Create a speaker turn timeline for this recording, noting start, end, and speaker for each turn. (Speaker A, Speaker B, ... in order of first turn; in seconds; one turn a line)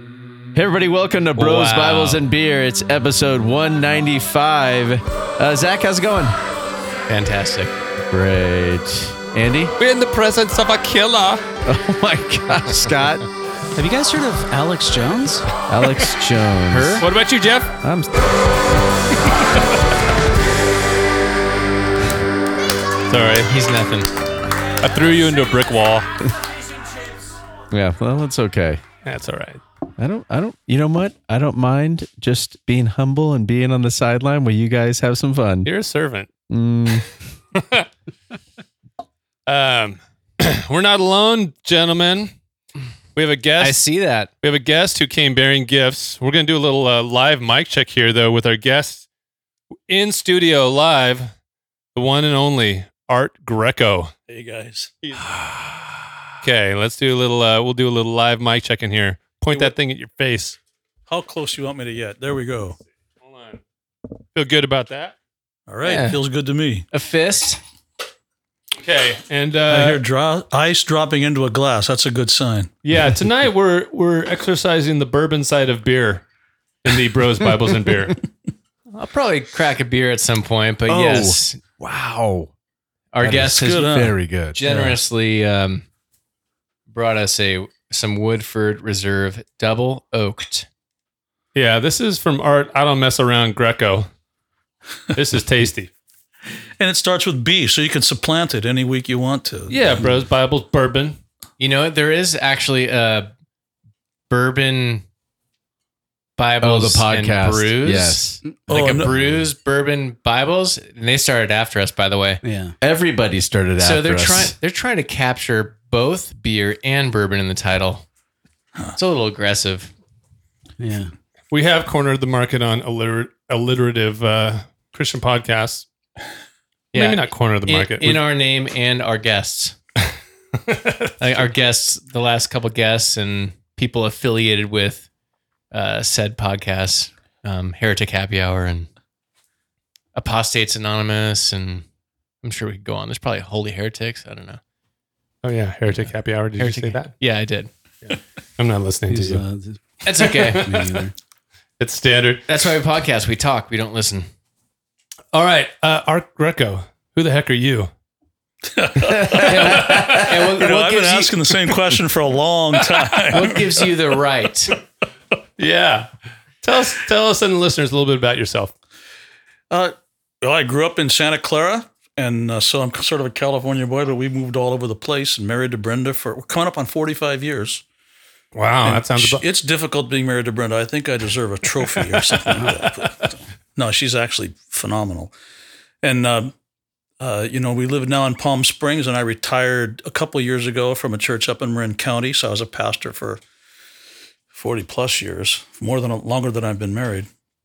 Speaker A: 0.5-6.5
Speaker B: 1.4-2.2
Speaker B: 7.1-7.7
Speaker A: 8.1-9.7
Speaker C: 9.8-11.6
Speaker A: 11.7-13.2
Speaker D: 13.8-15.5
Speaker A: 15.7-17.0
Speaker B: 16.7-17.1
Speaker C: 17.0-17.8
Speaker A: 17.8-18.5
Speaker C: 23.1-23.5
Speaker B: 23.5-24.1
Speaker C: 24.8-26.1
Speaker A: 27.7-28.8
Speaker C: 29.0-29.6
Speaker A: 30.0-35.7
Speaker C: 35.6-36.3
Speaker A: 36.5-37.1
Speaker C: 37.5-37.9
Speaker C: 39.5-42.4
Speaker C: 43.1-43.8
Speaker B: 43.6-44.3
Speaker C: 44.4-49.0
Speaker C: 49.9-51.4
Speaker C: 52.0-54.1
Speaker E: 54.3-54.9
Speaker A: 55.5-55.9
Speaker C: 56.4-60.6
Speaker E: 61.1-62.8
Speaker C: 63.2-63.6
Speaker C: 64.3-65.2
Speaker E: 65.7-66.9
Speaker B: 65.9-66.2
Speaker B: 66.9-67.6
Speaker C: 68.8-70.0
Speaker E: 69.7-72.7
Speaker C: 72.8-76.3
Speaker C: 76.8-78.2
Speaker B: 78.9-81.6
Speaker A: 80.9-82.5
Speaker B: 83.1-85.9
Speaker A: 83.2-85.0
Speaker E: 83.5-84.1
Speaker B: 86.9-90.7
Speaker C: 91.5-94.1
Speaker C: 95.1-95.9
Speaker E: 96.8-100.0
Speaker C: 99.7-101.2
Speaker B: 101.6-103.3
Speaker B: 104.3-105.0
Speaker B: 106.4-112.4
Speaker A: 106.6-108.4
Speaker E: 108.7-109.1
Speaker D: 112.4-112.8
Speaker A: 112.8-114.5
Speaker B: 113.8-118.1
Speaker B: 119.0-119.9
Speaker D: 120.8-121.1
Speaker C: 121.5-125.9
Speaker C: 126.9-128.2
Speaker B: 126.9-129.8
Speaker C: 130.7-131.1
Speaker B: 131.2-135.1
Speaker B: 135.7-138.9
Speaker B: 140.2-141.9
Speaker B: 142.4-144.6
Speaker C: 145.4-147.1
Speaker B: 145.9-147.7
Speaker C: 148.1-149.4
Speaker D: 149.1-151.1
Speaker B: 150.0-150.7
Speaker C: 150.5-150.9
Speaker C: 151.8-152.4
Speaker B: 152.5-154.3
Speaker C: 155.3-157.9
Speaker E: 158.7-163.6
Speaker B: 159.4-161.4
Speaker C: 159.7-160.2
Speaker B: 163.3-164.8
Speaker C: 165.6-166.1
Speaker C: 166.6-168.7
Speaker E: 169.7-177.8
Speaker C: 178.6-179.4
Speaker E: 178.8-185.3
Speaker C: 182.2-183.3
Speaker E: 186.0-186.5
Speaker E: 187.2-193.4
Speaker E: 194.5-197.3